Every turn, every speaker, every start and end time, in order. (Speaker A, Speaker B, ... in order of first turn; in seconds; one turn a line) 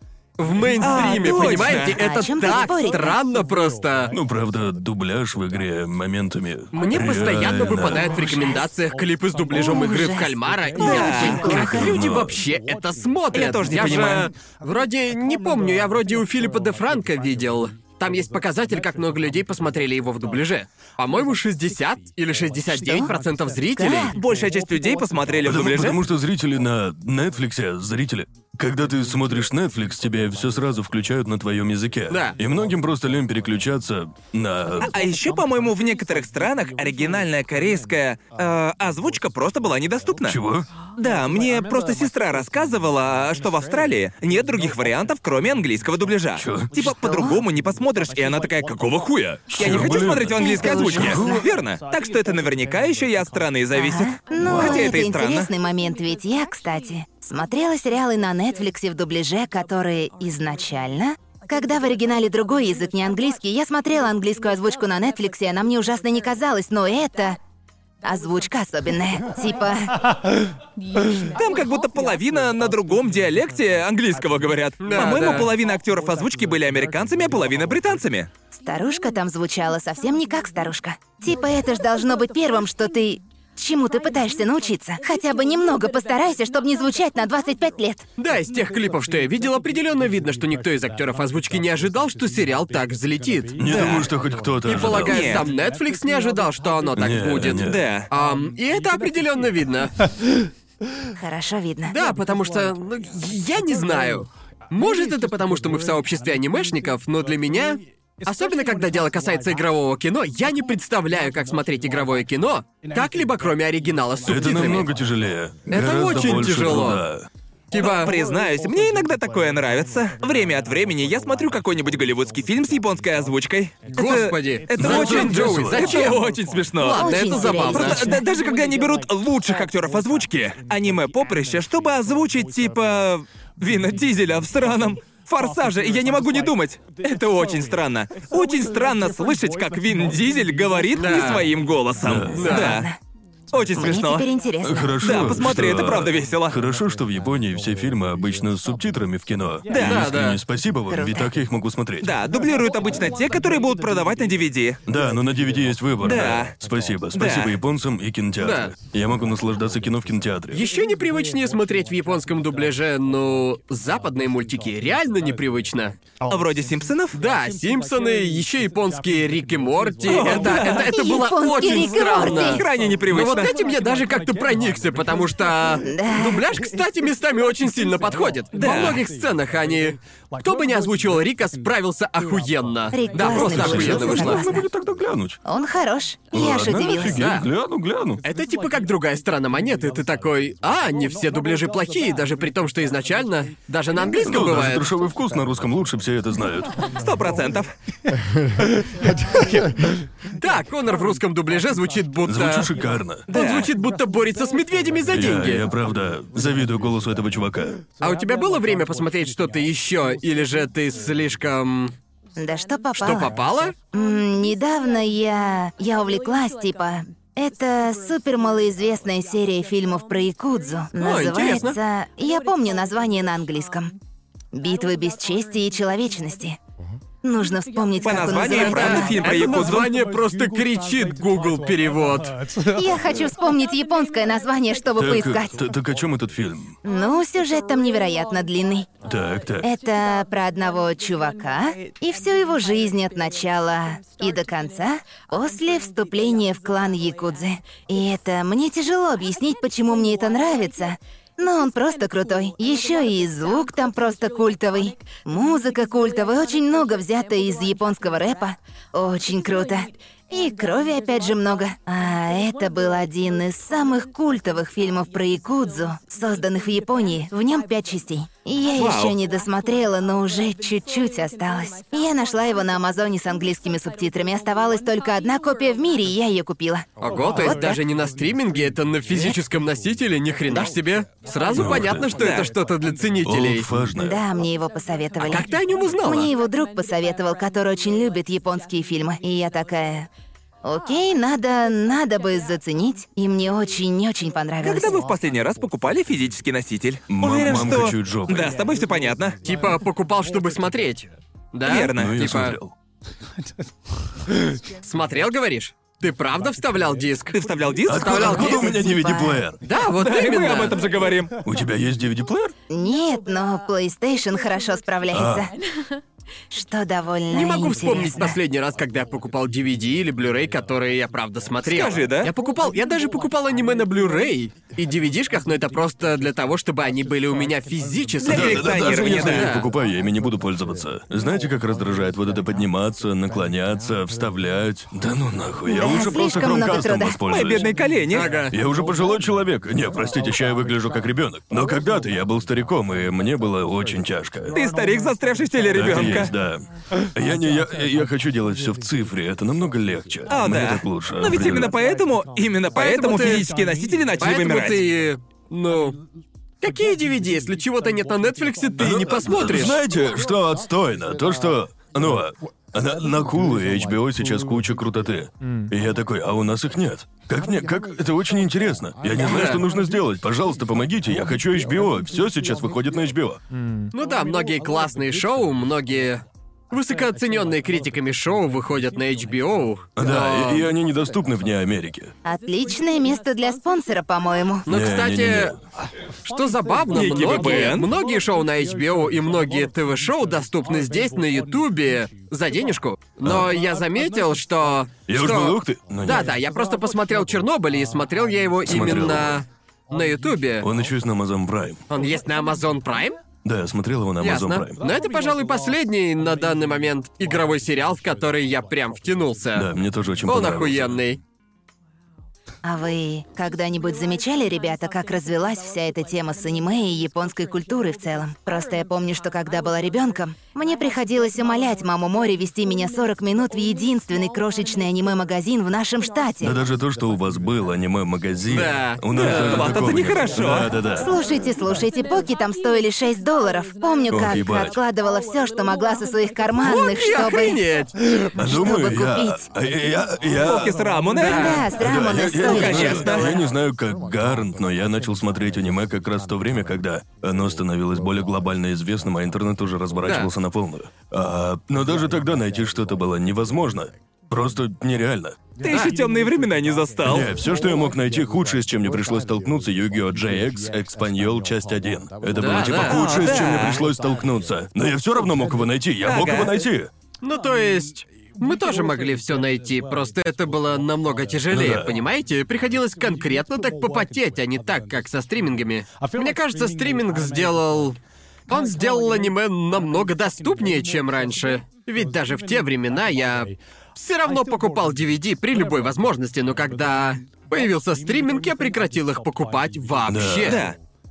Speaker A: 0.4-4.1
Speaker B: 0.8-2.0
Speaker C: 1.6-3.2
Speaker D: 4.1-8.2
Speaker A: 6.7-24.1
Speaker C: 8.1-8.7
Speaker C: 9.5-11.9
Speaker B: 10.8-11.5
Speaker D: 11.3-12.4
Speaker B: 13.3-14.3
Speaker C: 22.7-23.1
Speaker C: 23.7-24.1
Speaker B: 24.1-26.0
Speaker D: 25.4-34.9
Speaker A: 32.1-32.4
Speaker B: 34.8-40.4
Speaker D: 40.2-40.7
Speaker B: 41.0-55.5
Speaker D: 46.4-46.7
Speaker C: 46.8-47.4
Speaker D: 49.5-51.4
Speaker C: 50.3-51.4
Speaker C: 53.7-67.4
Speaker D: 54.4-54.9
Speaker C: 68.0-70.0
Speaker B: 71.3-78.3
Speaker A: 74.8-75.5
Speaker C: 78.5-88.0
Speaker A: 88.2-94.1
Speaker D: 93.6-95.3
Speaker B: 93.7-94.0
Speaker A: 94.6-99.9
Speaker B: 95.0-95.5
Speaker D: 97.0-97.8
Speaker B: 97.6-98.1
Speaker C: 101.1-101.9
Speaker A: 101.9-114.9
Speaker D: 114.2-117.3
Speaker A: 115.7-117.0
Speaker A: 117.7-118.1
Speaker B: 117.7-142.9
Speaker A: 123.9-128.2
Speaker D: 124.8-126.0
Speaker C: 126.9-128.2
Speaker A: 140.9-141.5
Speaker D: 142.0-142.4
Speaker A: 142.3-142.8
Speaker C: 142.4-143.0
Speaker B: 143.5-144.3
Speaker C: 143.8-145.0
Speaker D: 144.6-152.1
Speaker B: 145.0-146.6
Speaker B: 149.7-150.1
Speaker A: 149.7-150.4
Speaker C: 150.9-151.3
Speaker B: 152.0-154.8
Speaker D: 154.8-160.6
Speaker B: 156.0-156.5
Speaker B: 157.2-157.6
Speaker A: 158.4-158.7
Speaker A: 160.5-166.0
Speaker B: 166.3-167.2
Speaker A: 167.1-184.4
Speaker B: 170.1-170.9
Speaker C: 170.6-172.6
Speaker B: 171.9-173.5
Speaker C: 175.8-176.5
Speaker B: 178.6-179.0
Speaker C: 182.9-184.7
Speaker D: 183.3-185.4
Speaker C: 185.4-187.2
Speaker D: 186.3-188.2
Speaker A: 187.0-187.5
Speaker A: 188.2-194.9
Speaker D: 194.2-196.8
Speaker B: 196.9-197.7
Speaker A: 200.4-202.7
Speaker D: 202.3-203.3
Speaker B: 203.3-203.7
Speaker A: 203.3-205.6
Speaker D: 205.1-207.8
Speaker A: 208.0-211.9
Speaker C: 212.4-213.3
Speaker A: 213.0-213.8
Speaker C: 213.9-223.9
Speaker A: 221.0-221.8
Speaker C: 224.5-226.6
Speaker C: 227.2-229.2
Speaker B: 228.0-229.9
Speaker A: 228.5-232.4
Speaker C: 232.7-235.6
Speaker D: 235.0-236.7
Speaker C: 236.8-238.9
Speaker D: 239.0-239.7
Speaker C: 239.6-277.8
Speaker B: 268.8-269.1
Speaker A: 277.0-283.7
Speaker C: 279.1-279.4
Speaker D: 281.5-282.1
Speaker B: 282.1-282.5
Speaker D: 283.2-284.2
Speaker C: 283.9-285.5
Speaker A: 285.2-286.3
Speaker C: 286.0-290.1
Speaker C: 290.6-294.9
Speaker B: 294.6-299.4
Speaker D: 297.1-298.5
Speaker A: 299.4-302.6
Speaker B: 301.6-302.1
Speaker D: 301.9-302.7
Speaker A: 304.8-308.6
Speaker B: 307.3-308.5
Speaker D: 307.9-309.6
Speaker C: 308.3-309.4
Speaker A: 309.6-310.8
Speaker B: 309.9-311.3
Speaker D: 311.4-312.5
Speaker C: 312.7-315.5
Speaker D: 315.1-315.5
Speaker C: 316.5-318.4
Speaker A: 317.3-329.7
Speaker B: 321.6-322.3
Speaker B: 328.2-329.5
Speaker D: 328.3-337.7
Speaker C: 335.7-337.2
Speaker B: 337.3-338.3
Speaker A: 338.1-338.6
Speaker D: 338.5-344.6
Speaker B: 344.5-346.3
Speaker D: 345.7-351.7
Speaker B: 350.3-354.8
Speaker A: 352.7-353.5
Speaker A: 354.2-356.0
Speaker A: 356.6-359.8
Speaker D: 358.8-373.4
Speaker A: 369.2-369.6
Speaker A: 373.9-380.7
Speaker D: 379.9-382.1
Speaker C: 382.2-384.7
Speaker A: 384.6-385.6
Speaker D: 384.7-385.6
Speaker A: 386.2-400.7
Speaker B: 386.9-387.9
Speaker D: 393.2-393.5
Speaker D: 395.1-396.3
Speaker D: 398.6-399.4
Speaker D: 400.6-401.8
Speaker A: 401.9-403.2
Speaker D: 403.4-404.8
Speaker A: 404.2-409.7
Speaker D: 409.5-411.0
Speaker A: 410.3-411.2
Speaker C: 412.6-426.6
Speaker D: 426.4-431.1
Speaker A: 428.5-429.9
Speaker B: 429.1-430.7
Speaker C: 431.0-437.6
Speaker D: 434.1-434.7
Speaker A: 436.6-437.9
Speaker D: 438.3-440.8
Speaker C: 438.4-439.5
Speaker B: 440.4-441.6
Speaker A: 441.1-441.7
Speaker C: 441.3-443.5
Speaker D: 441.7-455.4
Speaker B: 442.4-443.3
Speaker A: 450.0-450.3
Speaker B: 455.6-457.3
Speaker A: 455.7-455.9
Speaker D: 457.1-466.9
Speaker A: 462.4-463.1
Speaker B: 462.8-463.8
Speaker B: 466.0-466.6
Speaker A: 467.2-490.6
Speaker D: 471.5-471.9
Speaker D: 490.1-490.6
Speaker B: 490.5-490.8